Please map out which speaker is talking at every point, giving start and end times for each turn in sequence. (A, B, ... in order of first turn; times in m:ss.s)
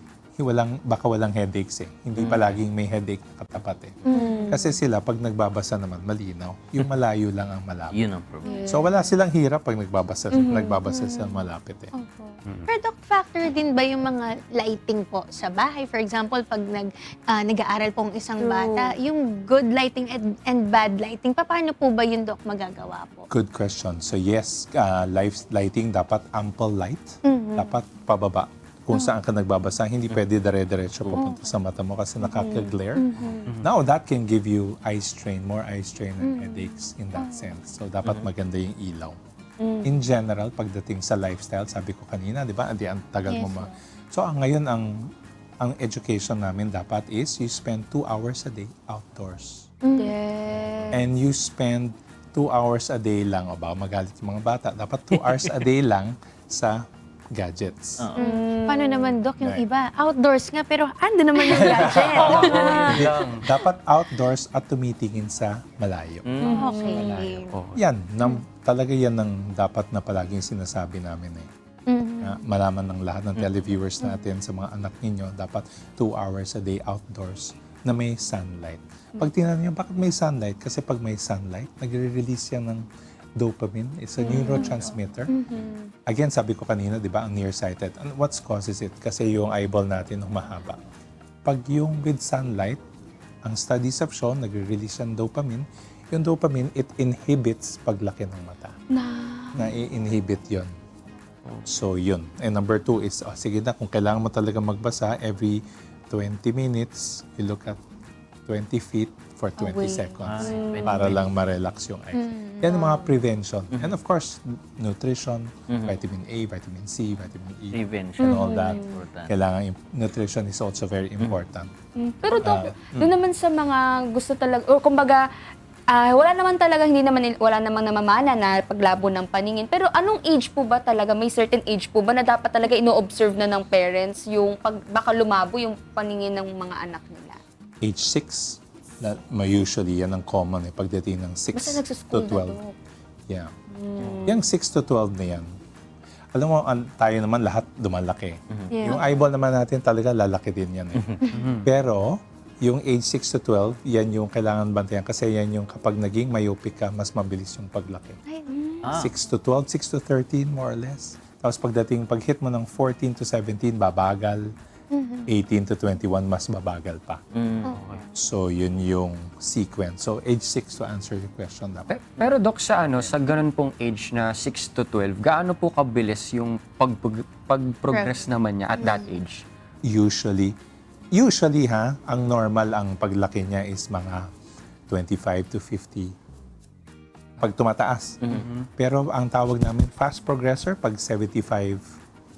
0:00.4-0:08.0 A
0:02.2-0:02.6 B
0:04.1-0:04.7 C
0:04.1-0:04.6 D
0:07.9-0:08.5 B
0:08.4-0:09.1 D
0:08.7-0:11.9 A
0:10.3-0:10.8 D
0:10.9-0:23.3 C
0:18.4-0:19.0 D
0:23.3-0:33.1 A
0:27.2-0:27.8 C
0:28.9-0:29.2 C
0:31.1-0:31.5 C
0:32.2-0:32.8 D
0:33.0-0:33.5 C
0:33.6-0:39.2 A
0:36.2-0:37.5 C
0:39.6-0:40.0 D
0:39.8-0:45.1 A
0:43.3-0:43.7 C
0:45.6-0:49.7 A
0:49.8-0:50.2 C
0:50.0-0:51.0 D
0:50.9-0:56.8 A
0:55.2-0:55.5 B
0:57.4-0:58.1 A
0:58.2-1:03.0 C
0:58.2-0:59.2 D
0:59.4-0:59.6 A
1:01.4-1:01.7 D
1:01.6-1:06.4 A
1:02.0-1:03.5 E
1:02.3-1:02.9 D
1:06.3-1:06.7 B
1:06.4-1:07.2 D
1:06.4-1:07.6 C
1:06.9-1:07.8 E
1:07.0-1:11.5 A
1:11.9-1:12.4 C
1:12.2-1:22.9 A
1:23.4-1:25.3 A
1:24.2-1:24.9 D
1:24.4-1:24.7 C
1:25.4-1:25.9 C
1:26.1-1:30.8 A
1:31.4-1:32.8 A
1:33.4-1:38.8 A
1:38.9-1:39.8 D
1:39.6-1:40.7 A
1:41.7-1:45.6 A
1:46.1-1:47.8 A
1:48.5-2:01.7 A
1:49.6-1:51.2 D
1:50.3-1:51.2 B
1:52.1-1:53.1 C
1:55.7-1:56.0 B
1:57.7-1:59.4 B
1:58.2-1:59.0 D
2:02.0-2:05.2 D
2:02.3-2:03.1 A
2:05.9-2:17.4 D
2:17.8-2:22.6 A
2:21.5-2:22.7 D
2:23.7-2:24.3 D
2:24.2-2:25.5 A
2:26.4-2:38.2 A
2:28.5-2:28.8 B
2:28.7-2:29.1 D
2:31.0-2:31.3 B
2:31.3-2:31.7 E
2:38.3-2:38.6 C
2:38.5-2:39.0 D
2:38.8-2:39.1 B
2:38.9-2:44.5 A
2:44.9-2:45.3 C
2:45.3-2:47.2 A
2:47.3-2:47.8 B
2:47.6-2:48.0 C
2:47.7-2:48.0 E
2:48.1-2:52.1 A
2:52.2-2:59.4 E
2:58.8-2:59.1 C
2:59.9-3:00.6 A
3:01.1-3:04.2 A
3:04.9-3:06.1 A
3:07.4-3:08.2 A
3:08.2-3:08.5 B
3:08.3-3:08.7 E
3:08.8-3:11.8 A